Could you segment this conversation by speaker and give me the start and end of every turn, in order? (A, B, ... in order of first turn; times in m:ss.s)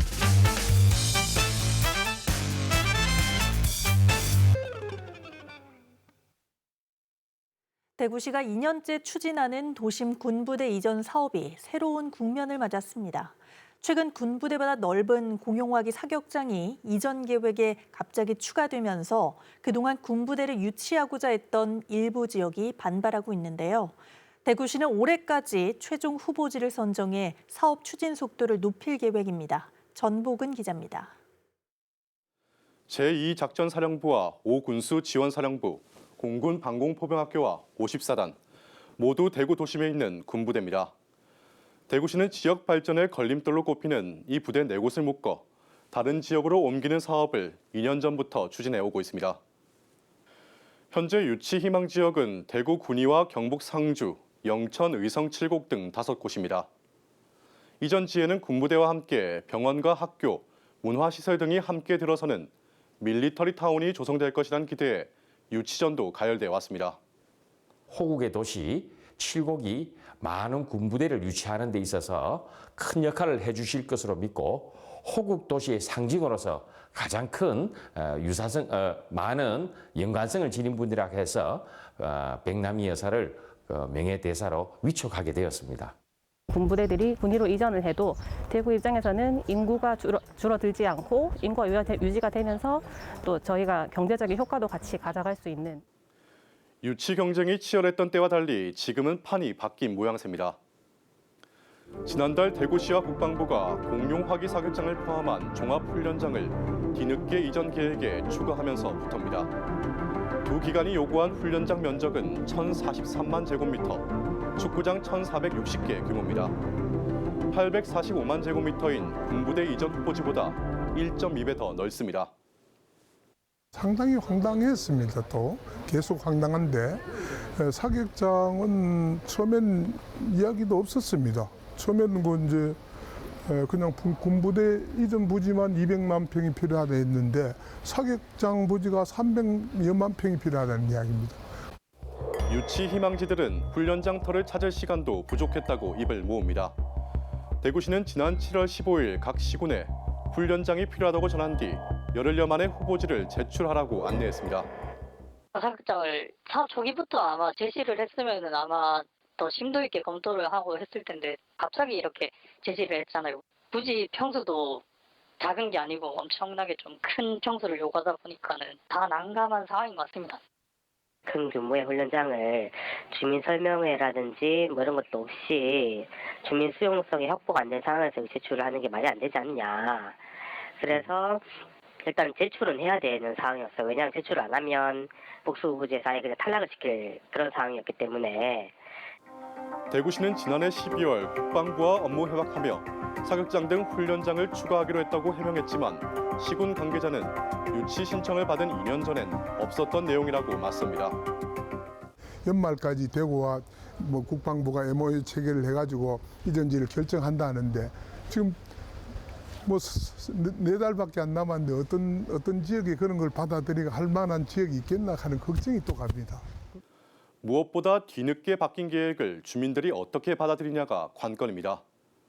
0:08.0-0:31.1 A
0:32.9-0:38.4 B
0:39.0-0:40.9 B
0:41.9-0:49.4 B
0:50.9-0:56.7 B
0:57.8-1:07.0 B
1:07.9-1:25.9 C
1:26.5-1:35.8 D
1:36.8-1:40.6 B
1:42.0-1:49.5 B
1:50.4-1:54.0 B
1:54.6-1:56.5 B
1:57.5-2:02.3 B
2:03.7-2:12.8 E
2:13.4-2:21.4 E
2:22.5-2:26.7 B
2:27.6-2:34.7 B
2:35.5-2:44.8 F
2:45.4-2:50.4 F
2:51.3-3:00.2 G
3:00.8-3:08.8 G
3:09.9-3:21.2 B
3:22.4-3:28.6 E
3:29.6-3:36.5 E
3:37.4-3:41.8 B